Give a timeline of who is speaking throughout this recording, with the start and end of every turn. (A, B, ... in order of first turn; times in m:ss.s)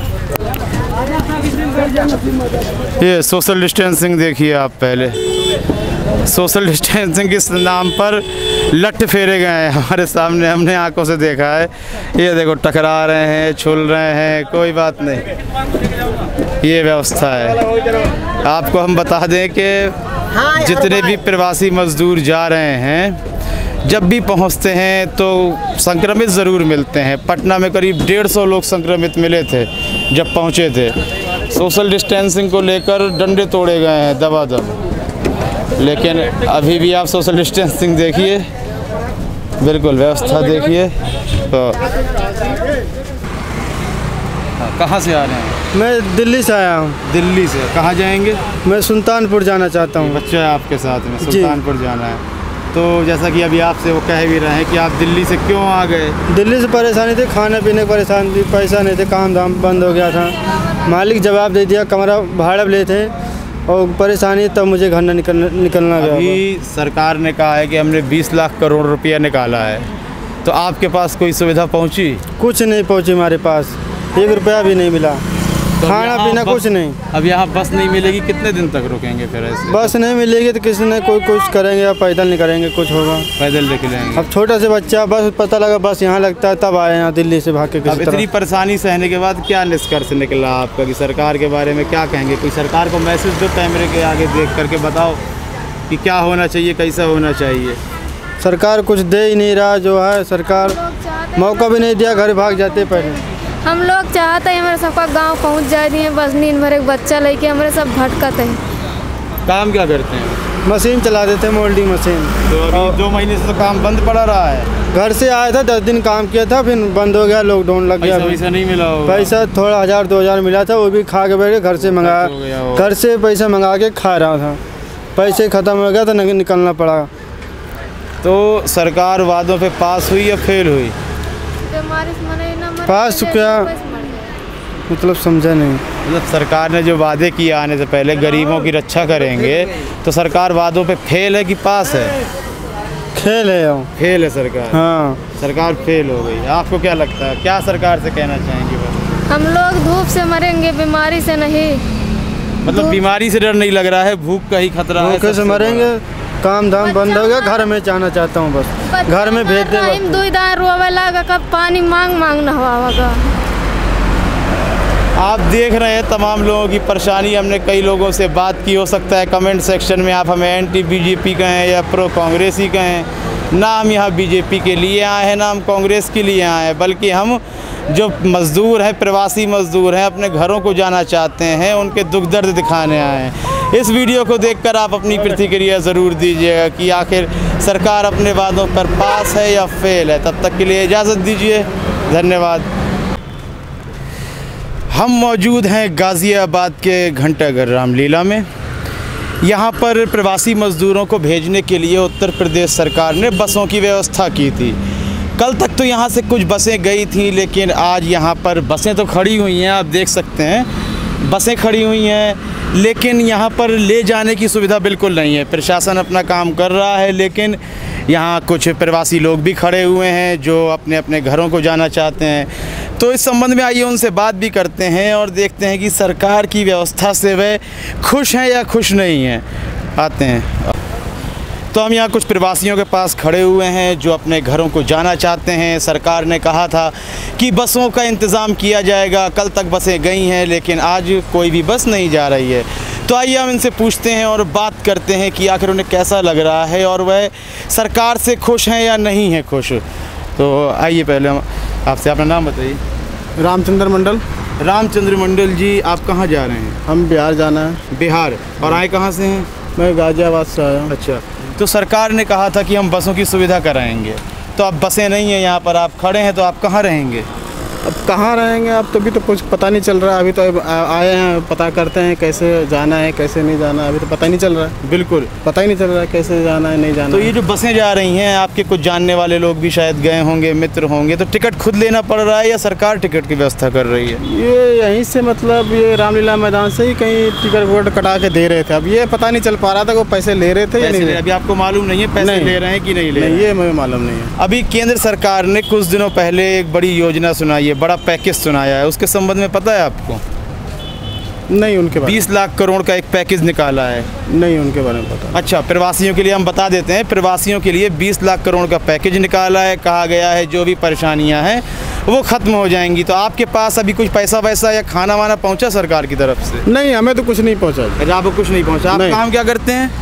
0:03.0-0:05.2 A
0:06.2-0:15.2 A
0:16.6-0:17.6 A
0:18.4-0:19.9 A
0:20.5-0:23.2 A
0:23.8-0:31.0 A
0:31.5-0:34.7 A
0:35.8-0:38.4 A
0:39.6-0:40.9 A
0:41.5-0:41.8 A
0:44.6-0:45.6 A
0:45.7-0:47.0 B
0:47.0-0:48.4 A
0:48.6-0:50.2 B
0:50.0-0:52.2 A
0:51.2-0:51.6 B
0:52.7-0:56.2 A
0:56.3-1:00.3 B
1:00.8-1:03.1 B
1:03.7-1:06.4 B
1:06.0-1:09.8 A
1:10.4-1:12.2 A
1:12.4-1:15.2 B
1:15.8-1:19.9 A
1:15.8-1:17.0 B
1:19.7-1:23.3 B
1:23.4-1:24.2 A
1:24.2-1:28.2 B
1:27.8-1:35.2 A
1:35.9-1:37.8 A
1:38.4-1:40.8 B
1:40.9-1:48.6 C
1:41.4-1:43.2 B
1:49.5-1:50.4 A
1:50.6-1:53.0 B
1:52.5-1:54.7 A
1:54.9-1:58.4 B
1:58.0-1:59.3 A
1:59.0-2:04.6 B
2:01.8-2:02.9 A
2:05.2-2:07.1 B
2:08.2-2:10.9 A
2:11.6-2:14.3 C
2:12.9-2:13.7 B
2:14.9-2:15.8 B
2:16.0-2:22.1 A
2:23.1-2:23.9 B
2:24.0-2:24.8 A
2:24.7-2:25.2 B
2:25.4-2:29.0 A
2:29.3-2:31.8 C
2:32.6-2:35.9 A
2:32.6-2:33.0 C
2:35.0-2:40.2 B
2:36.8-2:37.7 C
2:38.9-2:43.2 C
2:45.2-3:12.6 A
3:14.9-3:18.4 A
3:19.4-3:24.8 A
3:25.4-3:30.7 A
3:31.2-3:49.4 A
3:50.0-3:50.7 A
3:51.7-4:09.8 A
4:10.4-4:12.8 A
4:13.4-4:14.2 B
4:14.6-4:16.8 A
4:16.9-4:17.8 B
4:17.9-4:19.5 A
4:19.8-4:20.9 B
4:20.9-4:27.3 A
4:27.8-4:34.7 B
4:34.8-4:35.3 A
4:35.4-4:37.3 B
4:37.1-4:44.2 A
4:44.2-4:51.2 B
4:50.8-4:53.5 A
4:52.2-4:52.6 B
4:53.1-4:54.3 B
4:54.4-5:00.2 A
5:01.5-5:02.2 B
5:02.0-5:04.1 A
5:04.3-5:05.3 B
5:05.3-5:16.6 A
5:16.7-5:18.0 B
5:18.0-5:19.9 A
5:18.9-5:19.2 B